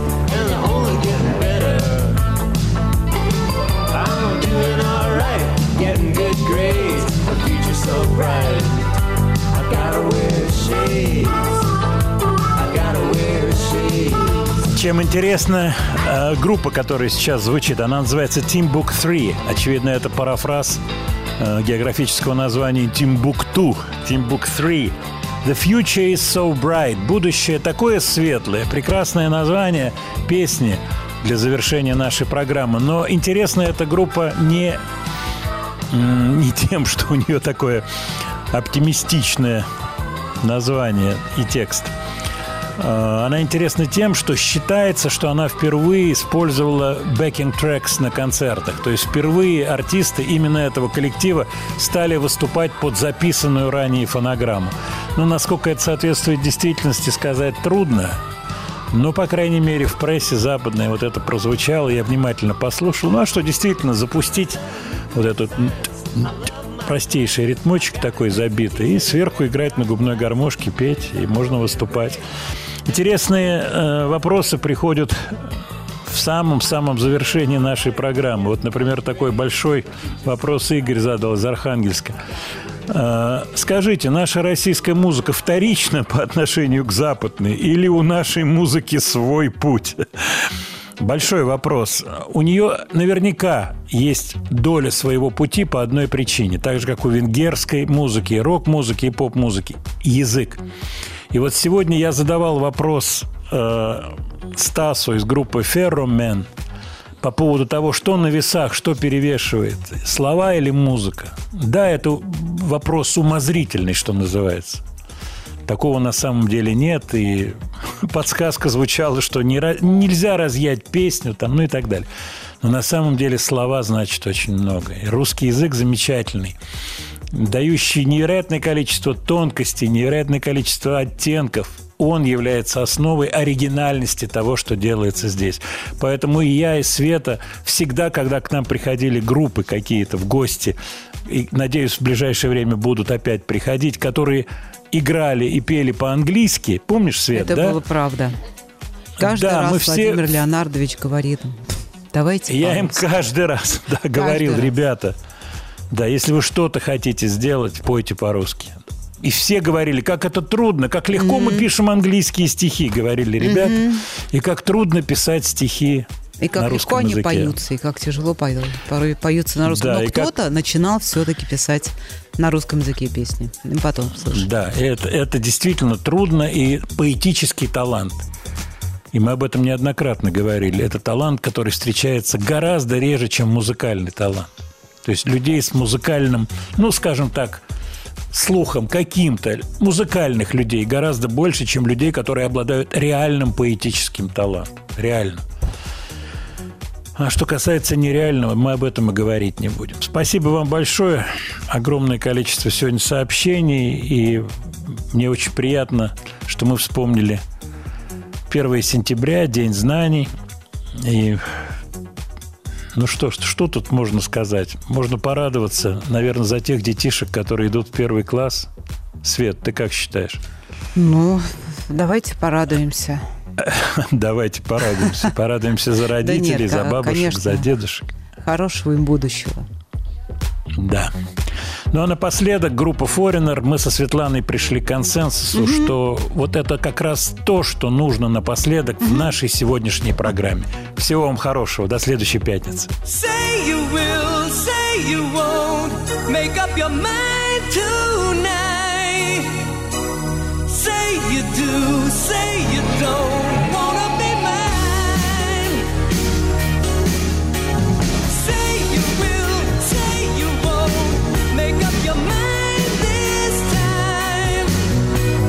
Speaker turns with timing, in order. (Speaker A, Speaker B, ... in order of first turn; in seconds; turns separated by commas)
Speaker A: 0.5-1.4, Speaker A: 3.9-8.8, Speaker A: 9.5-11.3, Speaker A: 12.6-14.4, Speaker B: 14.7-20.8, Speaker B: 21.4-34.8, Speaker B: 35.9-37.8, Speaker B: 38.5-39.7, Speaker B: 40.4-41.9, Speaker B: 42.8-58.2, Speaker B: 58.9-64.6, Speaker B: 65.1-72.2, Speaker B: 72.9-75.4, Speaker B: 76.1-82.2, Speaker B: 82.9-90.4, Speaker B: 91.0-100.6, Speaker B: 101.3-106.5, Speaker B: 107.2-114.8, Speaker B: 115.7-122.1, Speaker B: 122.6-126.5, Speaker B: 127.3-147.8, Speaker C: 147.3-148.3, Speaker B: 149.2-150.3, Speaker C: 149.2-151.6, Speaker C: 152.1-153.0, Speaker B: 152.5-155.2, Speaker C: 154.2-154.7, Speaker B: 155.9-166.1, Speaker C: 161.2-161.6, Speaker C: 163.4-164.0, Speaker C: 166.4-174.5, Speaker B: 166.6-167.5, Speaker B: 169.6-170.3, Speaker B: 174.3-178.2, Speaker B: 179.1-184.5, Speaker B: 185.0-187.6, Speaker B: 188.3-195.4, Speaker B: 197.2-207.4, Speaker B: 208.5-210.3, Speaker B: 211.0-211.4, Speaker B: 212.9-218.7, Speaker B: 219.2-220.4, Speaker C: 220.9-223.2, Speaker B: 223.6-228.1, Speaker C: 226.2-227.7, Speaker C: 228.4-229.6, Speaker B: 230.8-231.1, Speaker B: 231.9-242.9, Speaker C: 235.5-235.9, Speaker A: 243.0-249.7, Speaker A: 250.7-255.8, Speaker A: 258.3-264.8